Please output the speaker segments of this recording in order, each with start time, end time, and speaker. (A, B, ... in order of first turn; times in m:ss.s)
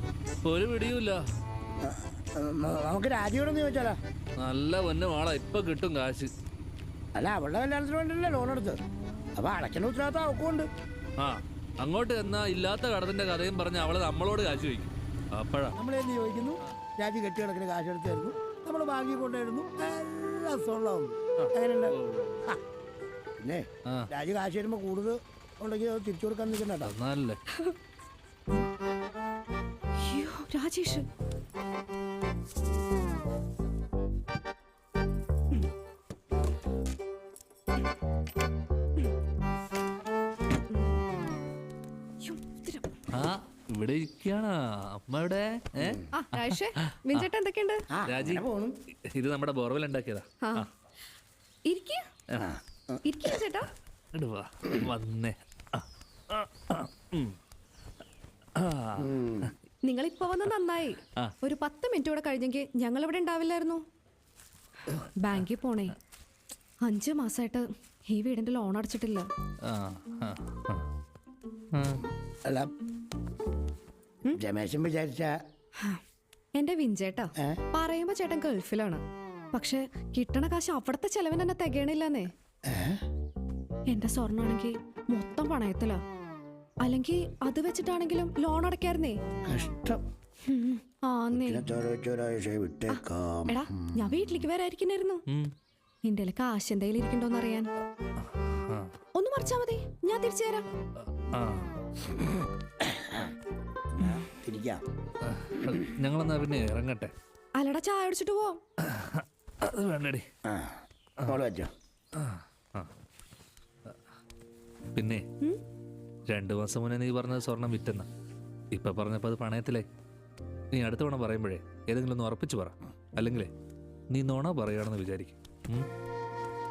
0:00.4-0:01.2 A
0:01.8-0:04.0 B
0:04.4-0:06.3 A
0:07.2-0:08.8 B
0:09.4-0:10.7 B
0:11.2-0:15.8 A
0:15.8-0:22.0 B
0:21.4-0:22.4 A
0:23.4-0:26.9 B
0:26.8-0:27.4 A
0:30.0-0:31.1 C
0:40.7-0:40.9 C
0:42.2-0:42.9 C
0:43.1-0:47.3 A
0:45.8-0:46.1 B
0:46.1-0:47.9 C
0:47.9-0:48.7 B
0:48.1-0:50.7 A
0:51.7-0:52.1 C
0:52.4-0:53.0 B
0:53.0-0:53.7 C
0:54.1-0:57.4 A
0:58.6-0:59.5 A
0:59.0-0:59.5 B
0:59.8-1:03.8 C
1:01.0-1:01.4 A
1:05.0-1:06.0 C
1:06.8-1:09.3 C
1:09.6-1:10.9 A
1:11.7-1:12.0 A
1:14.4-1:15.4 B
1:16.6-1:22.3 C
1:22.7-1:23.0 B
1:23.9-1:26.0 C
1:26.8-1:29.2 C
1:29.4-1:30.0 B
1:30.4-1:31.6 C
1:31.3-1:34.2 B
1:32.9-1:35.2 C
1:36.0-1:37.7 C
1:38.2-1:38.9 A
1:39.2-1:40.7 C
1:41.0-1:41.7 A
1:42.8-1:43.3 B
1:43.9-1:44.8 B
1:45.2-1:47.1 A
1:47.6-1:48.6 C
1:48.8-1:50.3 A
1:50.5-1:51.7 B
1:52.2-1:52.9 A
1:55.0-1:55.2 A
1:56.3-1:58.1 A
1:58.7-1:59.9 A
2:00.8-2:03.5 A
2:04.1-2:05.9 A